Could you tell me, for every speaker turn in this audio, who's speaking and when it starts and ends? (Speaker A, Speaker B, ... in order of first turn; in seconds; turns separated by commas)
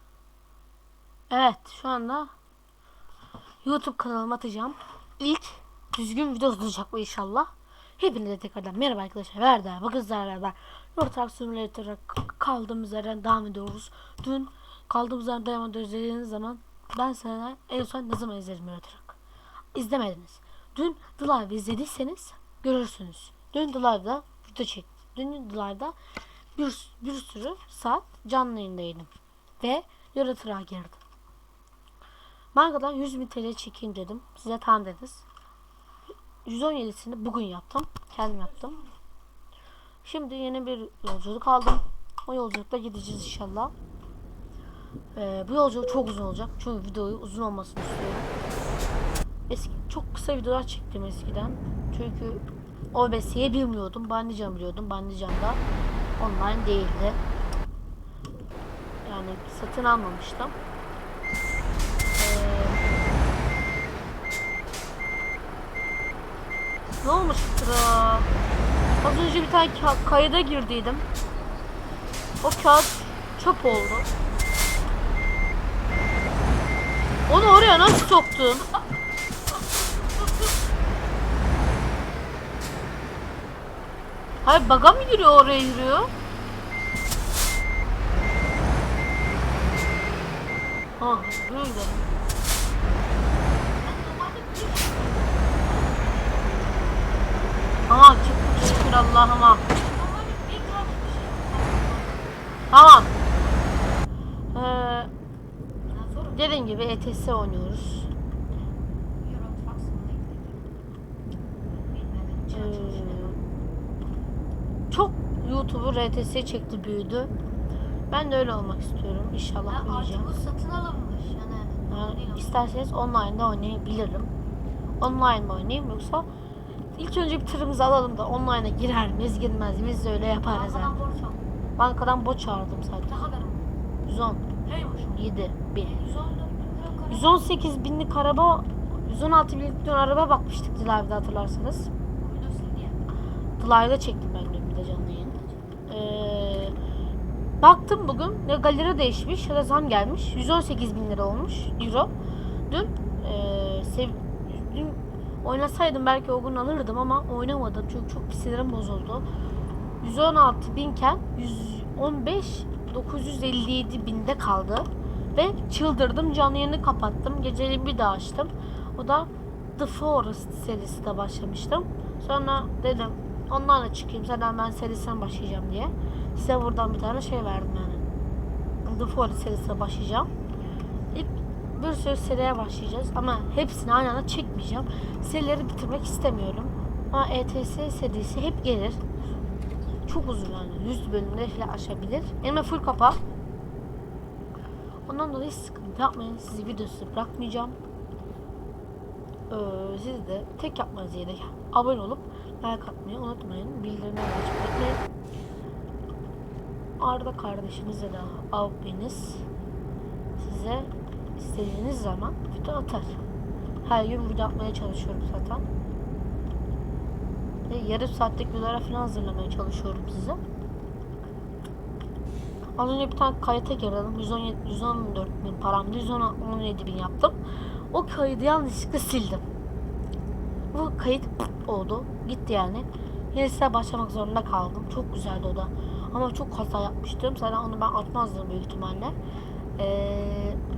Speaker A: 1.3-2.3, Speaker A: 3.6-19.2, Speaker A: 19.8-26.0, Speaker A: 26.6-29.1, Speaker A: 29.6-31.0, Speaker A: 32.5-35.2, Speaker A: 36.5-38.8, Speaker A: 40.0-43.7, Speaker A: 45.1-48.3, Speaker A: 49.5-55.6, Speaker A: 56.2-57.2, Speaker A: 59.0-60.6, Speaker A: 62.1-62.9, Speaker A: 67.0-68.3, Speaker A: 69.0-71.0, Speaker A: 72.4-74.1, Speaker A: 77.3-78.7, Speaker A: 84.4-86.1, Speaker A: 91.0-92.1, Speaker B: 93.8-96.7, Speaker A: 97.9-99.7, Speaker B: 99.8-102.7, Speaker A: 102.7-103.1, Speaker A: 104.5-105.1, Speaker B: 105.9-106.4, Speaker A: 106.3-108.1, Speaker B: 109.2-110.6, Speaker B: 111.8-113.4, Speaker A: 112.5-113.4, Speaker A: 114.9-117.3, Speaker A: 118.1-120.3, Speaker B: 119.7-122.6, Speaker A: 121.9-124.3, Speaker A: 125.0-126.3, Speaker A: 126.9-131.0, Speaker B: 130.5-131.4, Speaker A: 131.8-133.2, Speaker B: 133.1-133.7, Speaker A: 134.1-134.5, Speaker B: 134.7-135.2, Speaker A: 135.1-135.9, Speaker B: 135.8-137.5, Speaker A: 137.1-141.9, Speaker B: 142.2-143.0, Speaker A: 143.6-145.4, Speaker A: 145.9-146.8, Speaker A: 147.6-152.1, Speaker A: 152.7-159.3, Speaker A: 160.0-178.1, Speaker A: 178.8-180.3, Speaker A: 181.1-189.0, Speaker A: 190.1-193.2, Speaker A: 195.1-197.8, Speaker A: 199.5-205.0, Speaker A: 207.0-209.4, Speaker A: 210.4-213.2, Speaker A: 213.8-215.7, Speaker A: 217.7-220.4, Speaker A: 222.8-229.4, Speaker A: 230.7-239.2, Speaker A: 239.8-240.6